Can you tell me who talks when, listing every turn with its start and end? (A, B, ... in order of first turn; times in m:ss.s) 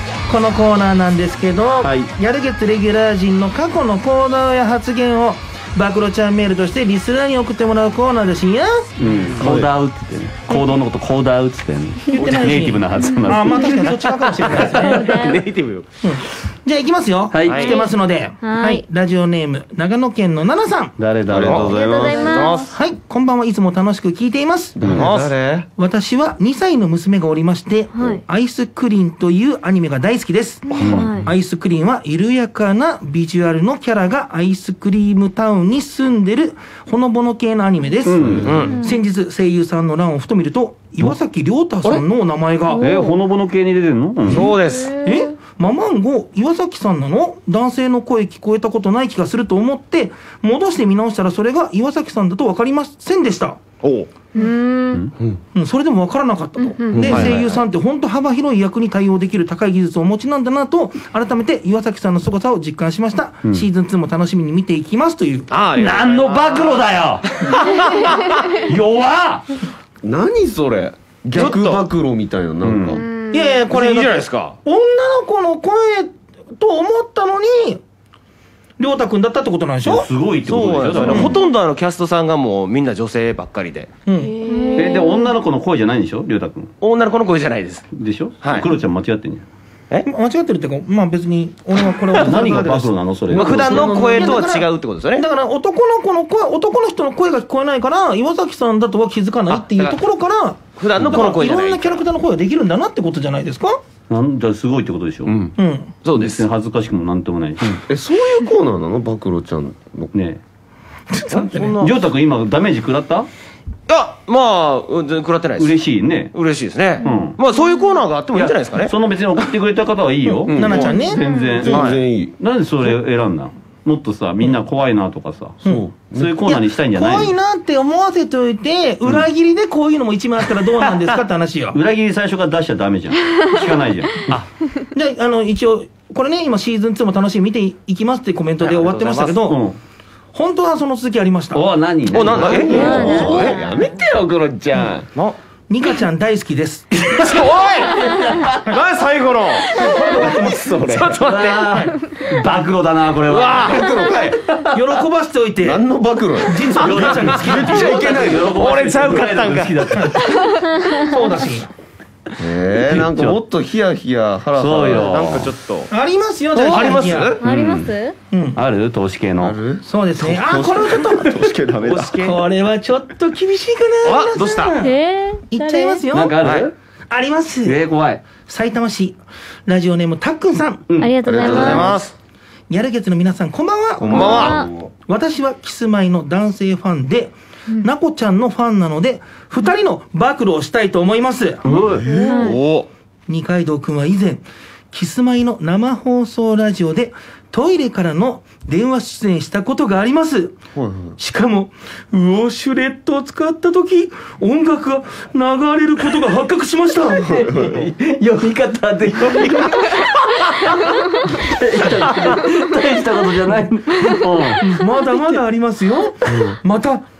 0:00.3-0:08.9 A
0:01.8-0:02.1 B
0:09.0-0:15.3 B
0:09.4-0:09.7 C
0:12.1-0:15.1 A
0:14.8-0:15.4 D
0:14.8-0:15.9 E
0:16.0-0:20.9 A
0:17.3-0:17.8 B
0:17.5-0:17.9 E
0:18.4-0:18.8 D
0:21.0-0:21.8 B
0:21.3-0:22.5 C
0:21.3-0:22.8 E
0:21.7-0:22.7 D
0:22.7-0:24.9 A
0:24.8-0:25.3 C
0:24.9-0:25.7 E
0:25.8-0:30.6 A
0:27.9-0:28.2 D
0:30.8-0:31.3 D
0:30.8-0:31.2 B
0:31.2-0:42.8 A
0:38.0-0:38.6 B
0:38.2-0:38.7 C
0:38.4-0:38.8 E
0:42.8-0:44.5 B
0:44.3-0:45.0 E
0:44.7-0:45.0 D
0:45.0-0:53.6 A
0:53.8-0:54.1 E
0:54.4-0:55.0 F
0:55.6-1:05.5 A
0:56.7-0:57.1 F
0:56.9-0:57.4 C
0:57.0-0:57.6 E
1:05.5-1:06.8 E
1:05.8-1:07.3 B
1:07.4-1:08.5 E
1:08.6-1:09.5 B
1:10.0-1:13.0 C
1:11.3-1:11.8 E
1:12.6-1:13.0 B
1:13.0-1:13.5 F
1:13.3-1:17.8 A
1:13.7-1:14.6 E
1:18.8-1:20.1 A
1:19.9-1:21.4 B
1:20.5-1:23.9 E
1:21.0-1:21.4 A
1:24.1-1:24.4 A
1:24.2-1:25.2 F
1:24.4-1:25.3 D
1:24.8-1:26.7 B
1:26.8-1:27.9 E
1:27.9-1:29.4 B
1:28.4-1:28.7 E
1:30.1-1:32.7 A
1:32.2-1:34.4 C
1:32.2-1:34.0 B
1:33.3-1:35.3 E
1:33.8-1:43.8 A
1:39.5-1:40.0 E
1:40.8-1:42.0 E
1:41.0-1:41.2 C
1:44.1-1:45.3 B
1:45.3-1:45.5 C
1:45.6-1:46.0 A
1:46.0-1:46.5 E
1:46.2-1:47.8 B
1:47.9-1:50.1 C
1:50.1-1:50.4 B
1:51.1-1:51.8 A
1:51.3-1:52.1 E
1:51.8-1:53.3 B
1:53.9-1:55.8 E
1:55.6-1:56.3 B
1:56.3-1:58.9 E
1:57.0-1:57.4 B
1:58.3-2:05.6 B
2:00.3-2:01.2 A
2:00.5-2:00.9 C
2:01.2-2:01.5 D
2:01.6-2:02.3 C
2:01.6-2:02.0 E
2:05.6-2:06.3 C
2:06.1-2:07.3 B
2:06.4-2:11.8 A
2:11.7-2:14.3 B
2:14.9-2:19.6 A
2:18.6-2:19.4 E
2:19.4-2:19.8 B
2:20.3-2:21.6 A
2:21.5-2:23.5 B
2:22.1-2:23.6 E
2:22.3-2:25.1 C
2:22.8-2:23.5 D
2:25.7-2:27.3 A
2:27.2-2:31.8 E
2:27.9-2:28.6 B
2:29.7-2:31.2 C
2:29.8-2:30.5 A
2:31.2-2:33.8 B
2:33.3-2:33.9 E
2:33.6-2:34.4 C
2:34.7-2:35.8 A
2:35.6-2:38.8 C
2:36.4-2:37.9 A
2:36.8-2:40.3 B
2:37.8-2:40.0 E
2:39.9-2:40.4 A
2:41.0-2:41.7 A
2:42.4-2:45.5 C
2:42.9-2:43.4 B
2:44.6-2:45.5 B
2:45.0-2:45.9 E
2:45.9-2:47.4 A
2:46.5-2:47.4 E
2:47.4-2:48.2 D
2:47.4-2:47.9 B
2:48.3-2:48.6 A
2:48.6-2:49.6 B
2:49.4-2:52.3 C
2:49.9-2:51.4 A
2:51.8-2:52.4 E
2:52.2-2:54.9 A
2:54.0-2:54.7 E
2:54.7-2:56.0 D
2:55.5-2:56.4 A
2:56.1-2:56.7 B
2:56.4-2:56.7 E
2:57.1-2:57.8 A
2:57.6-2:58.2 B
2:58.4-3:00.8 A
3:00.9-3:01.9 B
3:01.0-3:02.0 D
3:01.2-3:02.0 C
3:01.4-3:02.1 E
3:02.7-3:11.6 A
3:04.0-3:04.6 C
3:04.1-3:04.6 E
3:04.1-3:04.7 D
3:04.4-3:04.9 B
3:11.6-3:12.0 B
3:12.1-3:12.6 D
3:12.1-3:12.5 F
3:12.4-3:12.9 E
3:13.3-3:20.6 A
3:20.8-3:21.2 C
3:21.2-3:27.4 A
3:27.1-3:34.6 B
3:34.6-3:37.0 A